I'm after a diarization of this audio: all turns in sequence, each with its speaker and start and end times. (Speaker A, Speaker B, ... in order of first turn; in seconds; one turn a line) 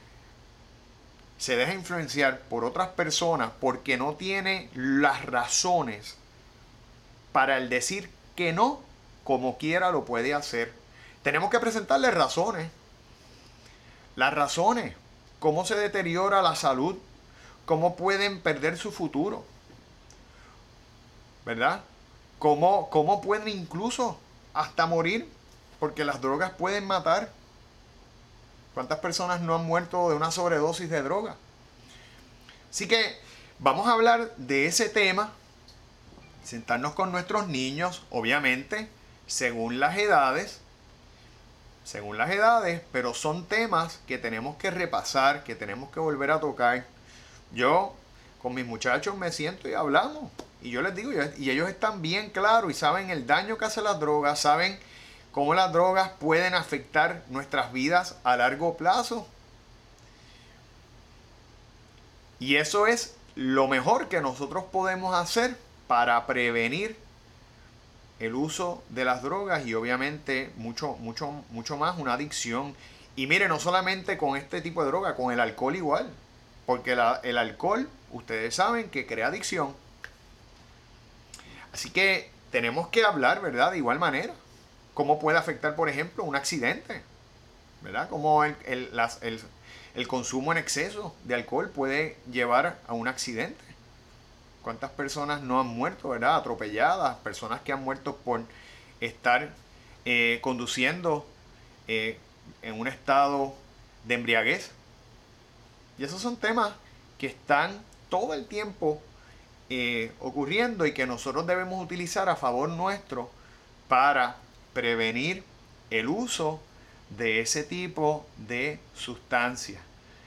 Speaker A: 1.4-6.2
Speaker A: 7.3-12.7
Speaker A: 14.2-17.0
Speaker A: 17.6-19.5
Speaker A: 21.4-21.8
Speaker A: 22.4-27.3
Speaker A: 28.7-31.4
Speaker A: 32.7-35.3
Speaker A: 36.4-40.6
Speaker A: 41.8-46.9
Speaker A: 47.5-59.3
Speaker A: 62.4-67.0
Speaker A: 68.2-79.8
Speaker A: 81.7-84.4
Speaker A: 84.9-87.0
Speaker A: 87.8-93.7
Speaker A: 94.6-101.3
Speaker A: 101.9-104.8
Speaker A: 106.0-109.1
Speaker A: 109.7-113.3
Speaker A: 113.9-119.9